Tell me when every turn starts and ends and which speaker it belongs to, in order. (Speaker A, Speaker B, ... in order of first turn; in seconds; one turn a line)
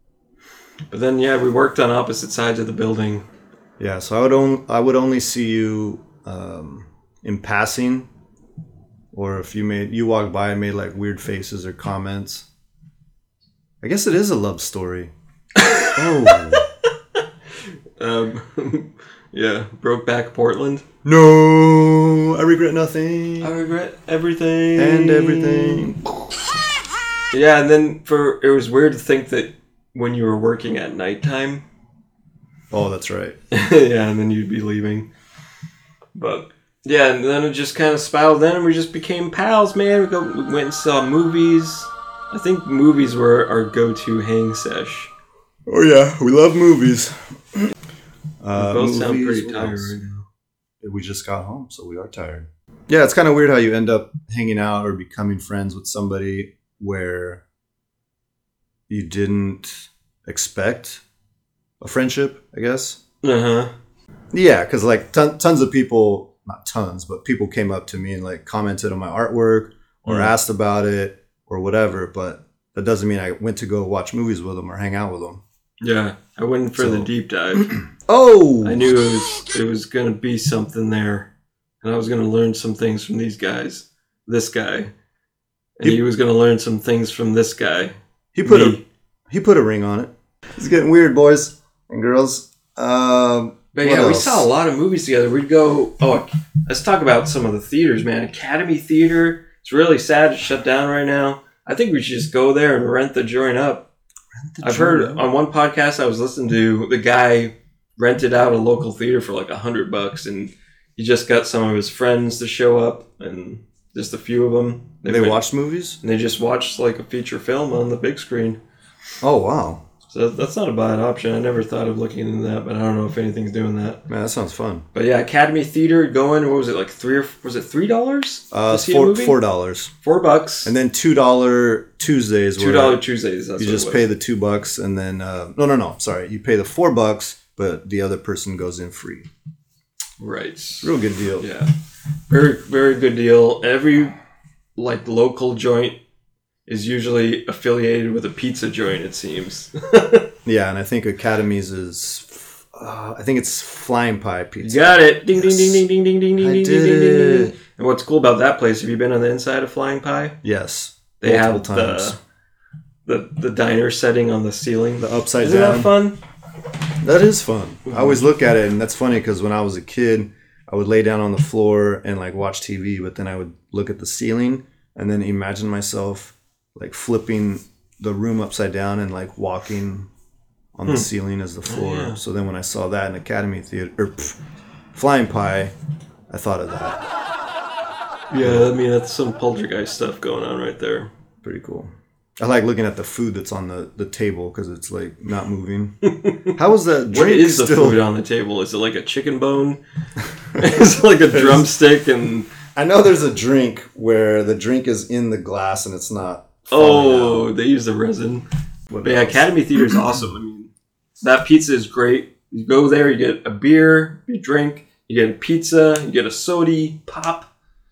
Speaker A: 0.9-3.2
Speaker B: 3.8-8.1
Speaker B: 9.1-12.4
Speaker B: 13.8-15.1
Speaker A: 15.6-16.6
Speaker B: 15.9-16.7
Speaker A: 18.0-20.8
Speaker B: 21.0-23.5
Speaker A: 23.4-25.9
Speaker B: 24.8-26.0
Speaker A: 27.3-31.6
Speaker B: 32.7-33.4
Speaker A: 33.5-35.1
Speaker A: 36.1-45.1
Speaker B: 45.7-47.7
Speaker B: 48.4-50.0
Speaker A: 48.5-50.2
Speaker B: 50.8-57.4
Speaker B: 58.9-61.0
Speaker B: 61.8-63.0
Speaker A: 63.2-63.7
Speaker B: 64.3-75.4
Speaker A: 70.1-70.3
Speaker A: 75.8-77.8
Speaker B: 76.8-77.1
Speaker B: 78.0-79.0
Speaker A: 78.6-81.3
Speaker A: 81.8-84.9
Speaker A: 85.8-88.8
Speaker B: 88.3-94.5
Speaker A: 93.7-103.8
Speaker B: 104.3-105.2
Speaker A: 104.6-115.4
Speaker B: 115.0-116.0
Speaker A: 116.0-118.6
Speaker B: 119.2-119.8
Speaker A: 120.1-124.0
Speaker B: 124.1-124.8
Speaker A: 124.9-129.4
Speaker B: 128.5-129.9
Speaker A: 130.0-130.7
Speaker B: 130.6-133.0
Speaker A: 132.6-134.1
Speaker B: 133.6-139.3
Speaker A: 140.2-141.7
Speaker B: 140.8-141.5
Speaker A: 142.3-144.2
Speaker A: 144.8-146.0
Speaker A: 146.7-150.3
Speaker B: 150.4-155.8
Speaker A: 154.6-160.4
Speaker B: 156.4-157.5
Speaker B: 160.4-162.2
Speaker A: 161.2-162.2
Speaker A: 163.1-166.2
Speaker B: 165.0-165.9
Speaker B: 167.0-180.1
Speaker A: 167.8-168.2
Speaker B: 180.7-184.4
Speaker A: 181.6-182.2
Speaker B: 184.9-185.7
Speaker B: 186.3-187.1
Speaker A: 188.3-191.1
Speaker B: 188.4-188.7
Speaker B: 191.4-198.0
Speaker A: 196.1-196.5
Speaker A: 197.1-199.8
Speaker A: 200.6-202.5
Speaker B: 201.3-201.7
Speaker B: 202.8-207.5
Speaker A: 206.7-208.4
Speaker B: 208.9-209.8
Speaker A: 209.0-217.5